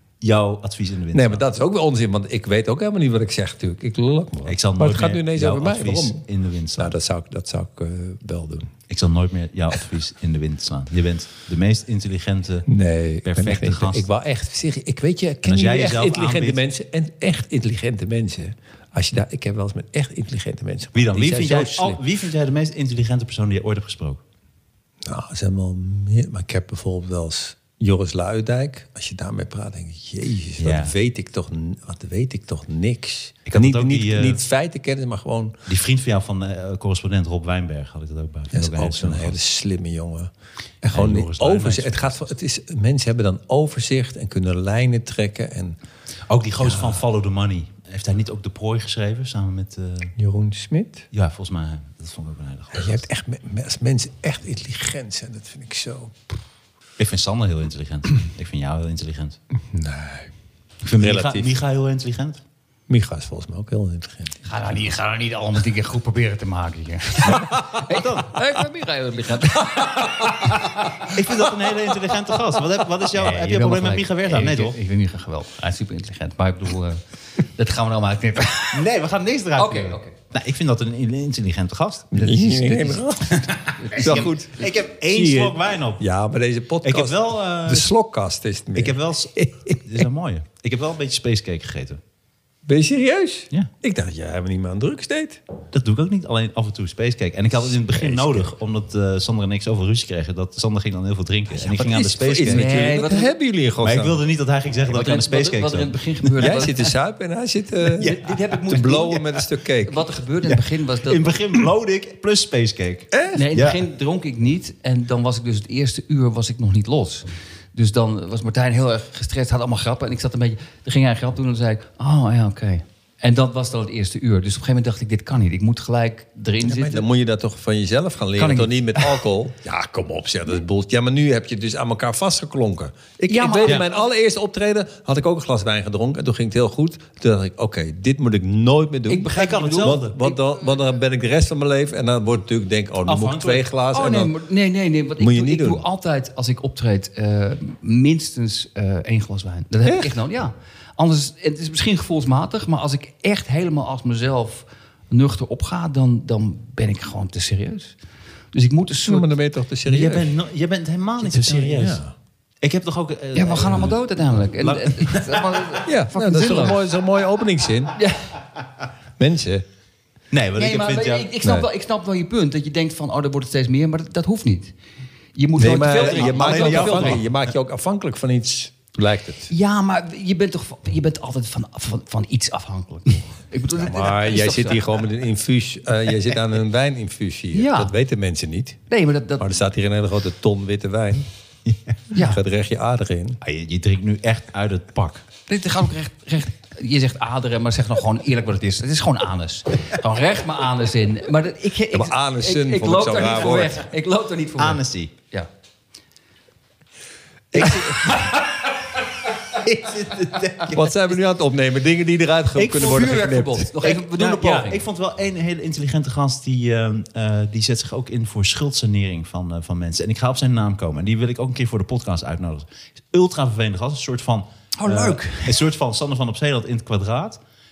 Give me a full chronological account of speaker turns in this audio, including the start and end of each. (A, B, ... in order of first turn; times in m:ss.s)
0:00.2-0:01.4 A
0:01.1-0:06.2 B
0:04.4-0:06.9 A
0:06.8-0:08.7 B
0:08.9-0:12.7 A
0:12.7-0:22.0 B
0:13.2-0:14.0 A
0:15.4-0:16.6 A
0:20.9-0:24.2 A
0:25.0-0:35.6 B
0:30.6-0:30.9 A
0:33.4-0:34.4 A
0:35.7-0:39.4 A
0:38.5-0:40.3 B
0:40.8-0:45.8 B
0:40.9-0:42.2 A
0:46.3-0:50.1 A
0:46.6-0:47.0 B
0:50.2-0:51.1 B
0:51.1-0:53.0 A
0:52.7-0:56.4 B
0:57.0-0:59.4 A
0:59.7-1:00.3 B
1:00.8-1:02.4 A
1:01.0-1:01.5 B
1:02.9-1:04.4 B
1:04.4-1:11.2 C
1:07.9-1:08.4 A
1:11.0-1:14.8 A
1:13.1-1:18.8 C
1:18.7-1:22.1 A
1:19.6-1:20.1 C
1:22.1-1:30.1 B
1:22.1-1:23.0 C
1:23.2-1:26.0 A
1:23.8-1:24.3 C
1:26.8-1:27.9 A
1:28.7-1:32.0 A
1:32.6-1:35.4 B
1:35.7-1:42.9 A
1:37.9-1:38.5 B
1:41.5-1:44.2 B
1:42.4-1:43.3 C
1:43.8-1:46.6 A
1:44.9-1:46.9 C
1:46.4-1:50.0 B
1:48.0-1:49.3 C
1:49.8-1:51.4 C
1:50.4-1:53.8 A
1:53.1-1:53.4 B
1:53.3-2:07.0 C
2:06.6-2:24.3 B
2:08.4-2:09.2 C
2:13.3-2:13.8 C
2:19.1-2:20.4 C
2:19.3-2:20.2 A
2:23.0-2:23.6 A
2:23.9-2:38.0 C
2:25.2-2:25.8 B
2:29.8-2:30.1 B
2:38.5-2:39.3 C
2:39.0-2:40.3 B
2:39.8-2:42.0 A
2:41.2-2:42.1 B
2:42.6-2:45.8 A
2:43.3-2:46.8 C
2:45.8-2:48.0 B
2:48.0-2:48.2 C
2:49.2-2:49.6 B
2:50.3-2:51.3 A
2:50.6-2:54.7 C
2:51.4-2:51.7 B
2:55.3-2:57.2 C
2:55.6-2:59.5 B
2:55.9-2:57.2 A
2:59.5-3:05.0 C
3:03.8-3:08.8 B
3:07.5-3:07.9 C
3:08.9-3:09.5 C
3:09.4-3:11.3 B
3:12.1-3:12.4 C
3:12.2-3:13.4 B
3:13.4-3:15.2 A
3:15.5-3:25.5 C
3:21.9-3:23.8 B
3:24.6-3:25.1 A
3:27.5-3:28.1 B
3:27.5-3:27.8 A
3:27.6-3:28.7 C
3:29.3-3:29.6 C
3:29.5-3:31.0 A
3:30.7-3:33.7 B
3:32.6-3:33.1 A
3:32.6-3:34.8 C
3:33.8-3:47.4 A
3:44.8-3:45.6 C